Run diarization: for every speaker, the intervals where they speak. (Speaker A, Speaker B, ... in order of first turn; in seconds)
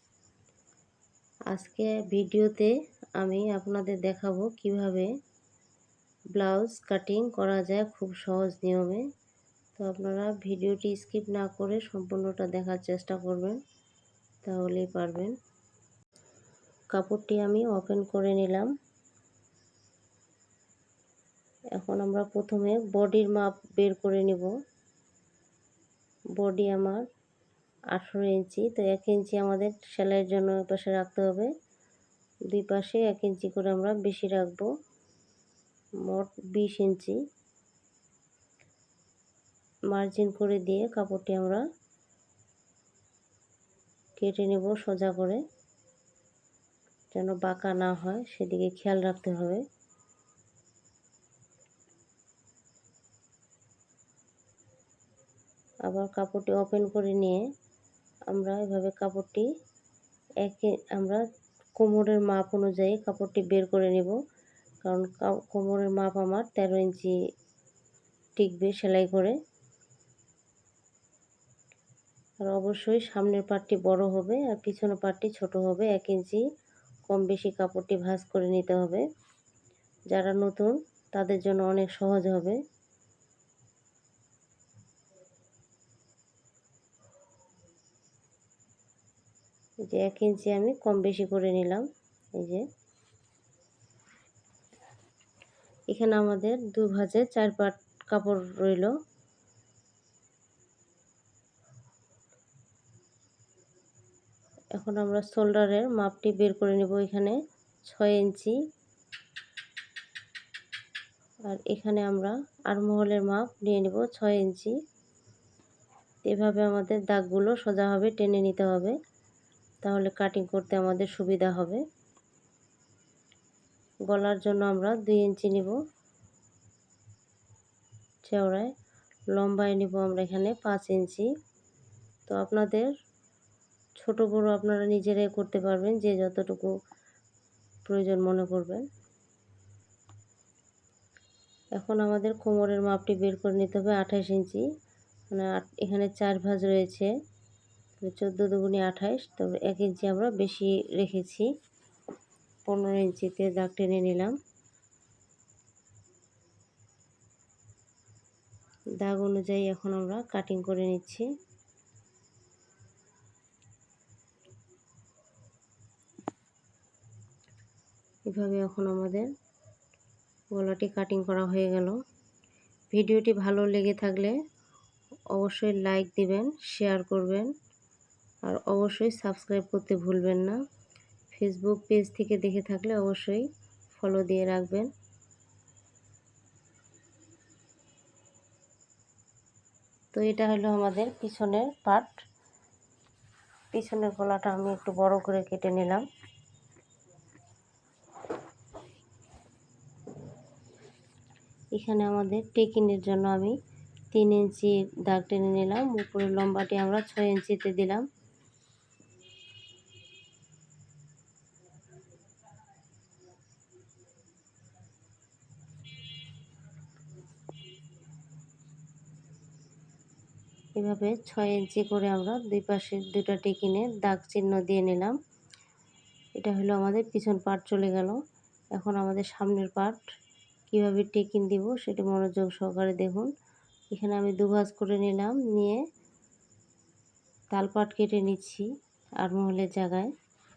Speaker A: 1.5-5.1, 6.3-9.0, 9.8-13.6, 14.4-15.3, 16.9-18.7, 21.7-24.5, 26.4-27.0, 27.9-31.5, 32.5-34.7, 36.0-37.2, 39.9-41.6, 44.2-45.4, 47.1-49.6, 55.9-57.4, 58.3-59.5, 60.4-61.2, 61.8-64.2, 64.8-67.1, 68.4-69.3, 72.4-76.4, 77.1-79.0, 80.1-82.6, 89.9-91.8, 92.4-92.6, 95.9-98.9, 104.7-108.5, 111.5-114.8, 116.2-119.0, 119.8-121.8, 124.1-125.8, 128.2-128.7, 129.3-131.3, 132.3-132.9, 134.0-136.7, 137.9-138.8, 141.8-144.6, 145.3-147.1, 148.0-151.5, 152.7-154.3, 159.0-161.3, 168.3-169.3, 170.5-171.9, 172.9-174.3, 175.3-177.5, 178.4-180.6, 181.3-184.9, 190.1-192.1, 193.7-196.0, 201.7-203.5, 204.1-208.0, 220.8-225.2, 226.4-228.2, 228.7-230.0, 230.7-233.3, 233.9-235.8, 237.5-238.7, 239.2-240.1